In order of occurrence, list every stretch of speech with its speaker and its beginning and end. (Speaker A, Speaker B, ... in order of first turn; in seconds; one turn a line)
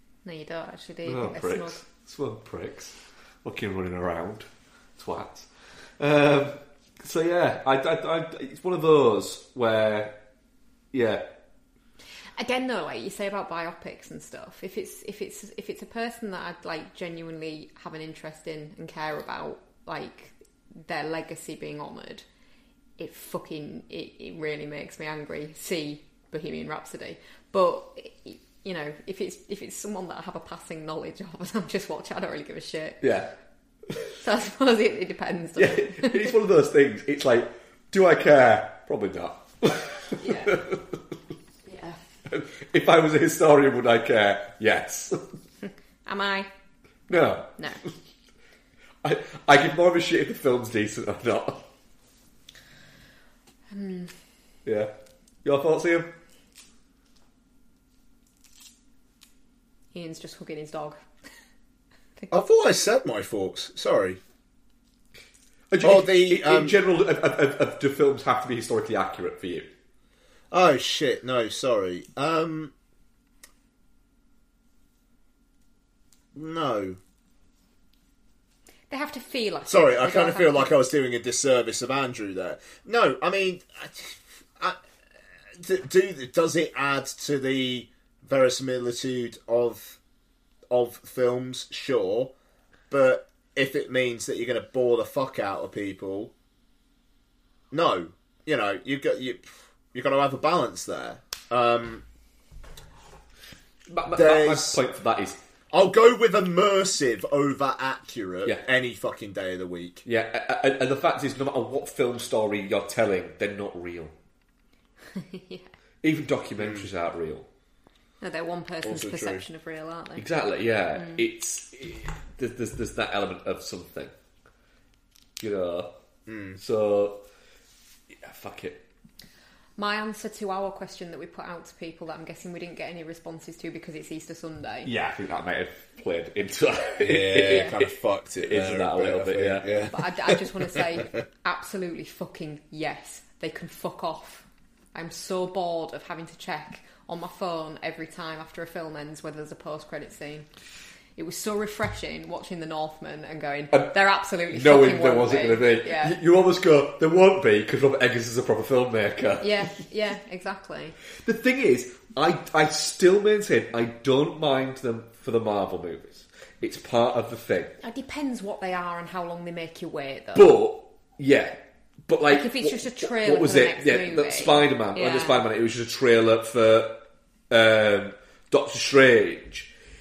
Speaker A: 0.2-1.8
Speaker B: 1.1-4.5
Speaker B: 5.0-5.5
Speaker B: 6.0-10.2
Speaker B: 10.9-11.3
Speaker A: 12.4-22.2
Speaker A: 23.0-33.0
Speaker B: 33.0-33.3
Speaker A: 34.2-36.4
Speaker B: 35.6-41.0
Speaker A: 40.2-40.6
Speaker A: 41.7-42.0
Speaker B: 42.3-45.2
Speaker A: 45.7-46.5
Speaker B: 47.1-47.9
Speaker B: 49.0-51.7
Speaker A: 53.7-54.1
Speaker B: 54.6-54.9
Speaker B: 55.4-56.1
Speaker A: 59.9-61.0
Speaker C: 62.3-64.2
Speaker B: 65.7-69.7
Speaker C: 65.8-66.8
Speaker C: 70.5-72.7
Speaker C: 76.3-77.0
Speaker A: 78.9-80.8
Speaker C: 79.7-84.8
Speaker C: 85.6-90.0
Speaker C: 90.7-92.3
Speaker C: 92.9-96.3
Speaker C: 97.7-102.0
Speaker B: 103.9-105.4
Speaker C: 104.2-104.8
Speaker C: 105.7-110.0
Speaker B: 110.0-114.1
Speaker A: 115.2-115.7
Speaker B: 116.0-117.5
Speaker C: 116.6-116.8
Speaker A: 118.2-120.2
Speaker C: 118.8-119.4
Speaker B: 120.2-124.1
Speaker A: 121.0-121.2
Speaker B: 125.4-125.9
Speaker C: 126.3-126.6
Speaker B: 126.6-127.2
Speaker B: 128.1-128.8
Speaker A: 129.8-134.9
Speaker B: 134.8-140.3
Speaker C: 137.0-139.9
Speaker A: 137.5-137.7
Speaker A: 139.9-144.4
Speaker A: 144.9-150.5
Speaker A: 151.2-156.2
Speaker B: 154.5-159.7
Speaker A: 159.4-160.9
Speaker B: 161.2-167.8
Speaker A: 167.8-170.6
Speaker B: 170.3-179.7
Speaker A: 172.3-175.4